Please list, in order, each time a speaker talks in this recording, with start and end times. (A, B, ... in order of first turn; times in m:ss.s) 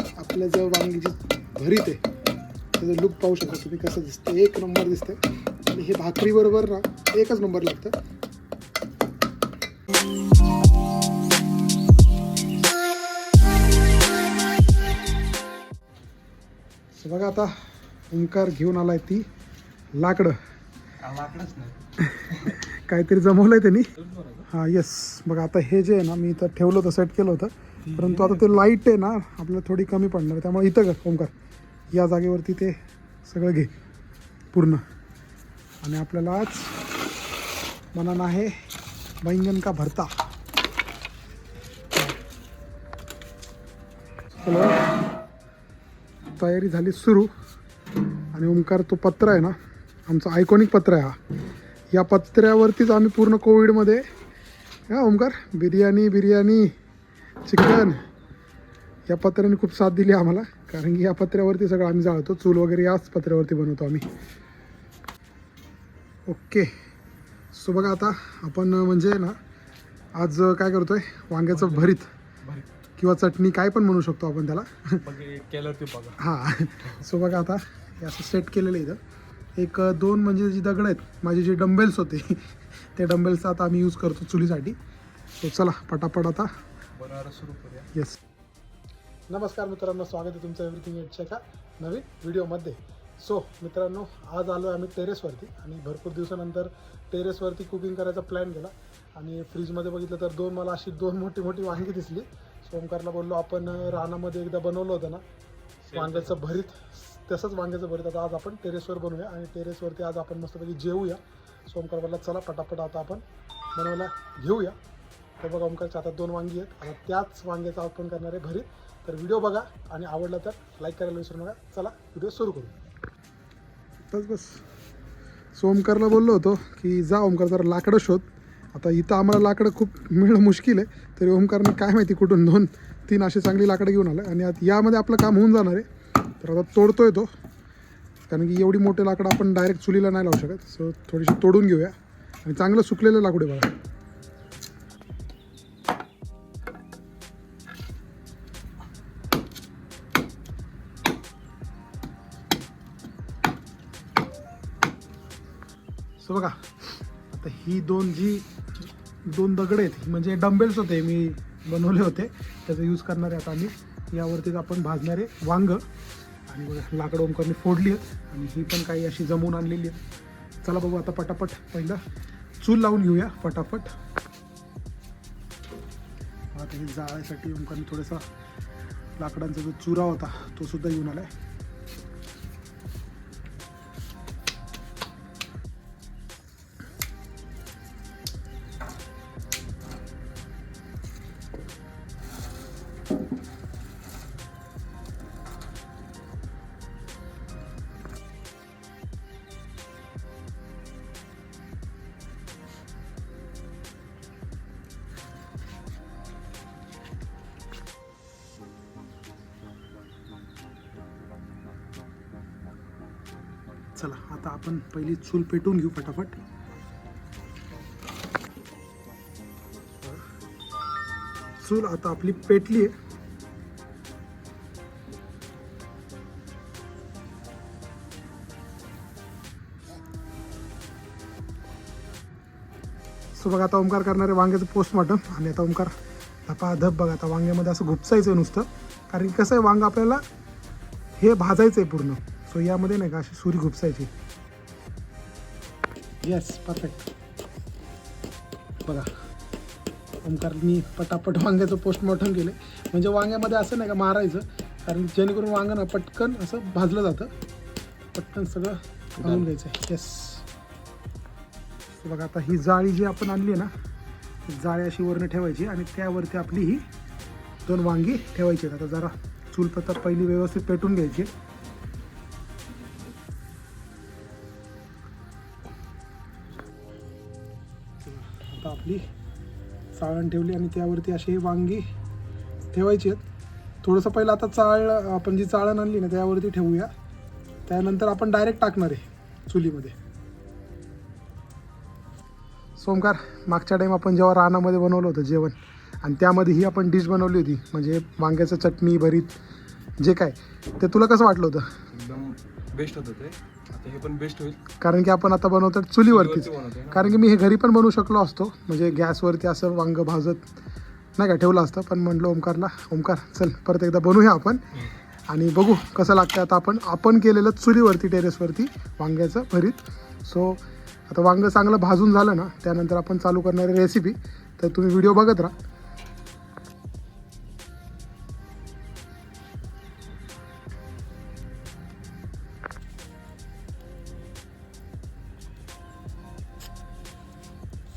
0:00.2-0:02.0 A
0:02.8-0:07.9 A
0:17.0-0:19.2 A
0:20.0-0:20.4 A
0:21.0-0:21.8 B
0:22.0-0:23.9 A
0:24.0-0:24.5 B
0:24.5-0:31.3 A
0:27.9-0:28.5 B
0:31.9-0:33.7 A
0:34.5-0:34.8 A
0:35.8-0:36.8 A
0:38.0-0:38.7 A
0:39.2-0:40.1 A
0:44.4-0:44.8 A
0:46.4-0:47.3 A
0:48.3-0:49.6 A
0:50.1-0:51.2 A
0:51.9-0:54.1 A
0:54.9-0:56.8 A
0:57.4-0:58.0 A
0:59.1-1:04.1 A
1:06.3-1:06.7 A
1:07.5-1:09.4 A
1:10.2-1:12.1 A
1:11.5-1:11.9 B
1:13.0-1:15.0 A
1:15.1-1:16.2 B
1:16.2-1:19.0 A
1:19.6-1:24.8 A
1:25.4-1:26.5 A
1:27.0-1:27.9 B
1:29.3-1:45.2 A
1:45.9-1:53.2 A
1:45.9-1:46.4 B
1:53.8-1:54.8 A
1:55.4-2:02.8 A
2:04.1-2:04.6 A
2:05.6-2:15.9 A
2:16.4-2:17.3 A
2:18.3-2:23.7 A
2:36.2-2:45.8 A
2:46.5-2:50.0 A
2:50.6-2:52.0 A
2:52.6-2:53.9 A
2:56.5-2:58.3 A
2:59.2-3:01.3 A
3:34.0-3:36.4 A
3:41.6-3:43.0 A
3:53.4-3:55.9 A
3:56.5-4:00.2 A
4:01.2-4:04.1 A
4:06.2-4:07.1 A
4:10.2-4:17.3 A
4:18.1-4:20.5 A
4:22.0-4:23.7 A
4:24.5-4:26.9 A
4:27.7-4:31.3 A
4:38.0-4:39.0 A
4:40.0-4:41.9 A
4:42.7-4:43.2 A
4:43.8-4:46.9 A
4:47.7-4:50.0 A
4:52.8-4:59.4 A
5:00.0-5:01.7 A
5:01.9-5:04.6 B
5:04.8-5:10.5 A
5:06.1-5:07.2 B
5:11.2-5:25.5 A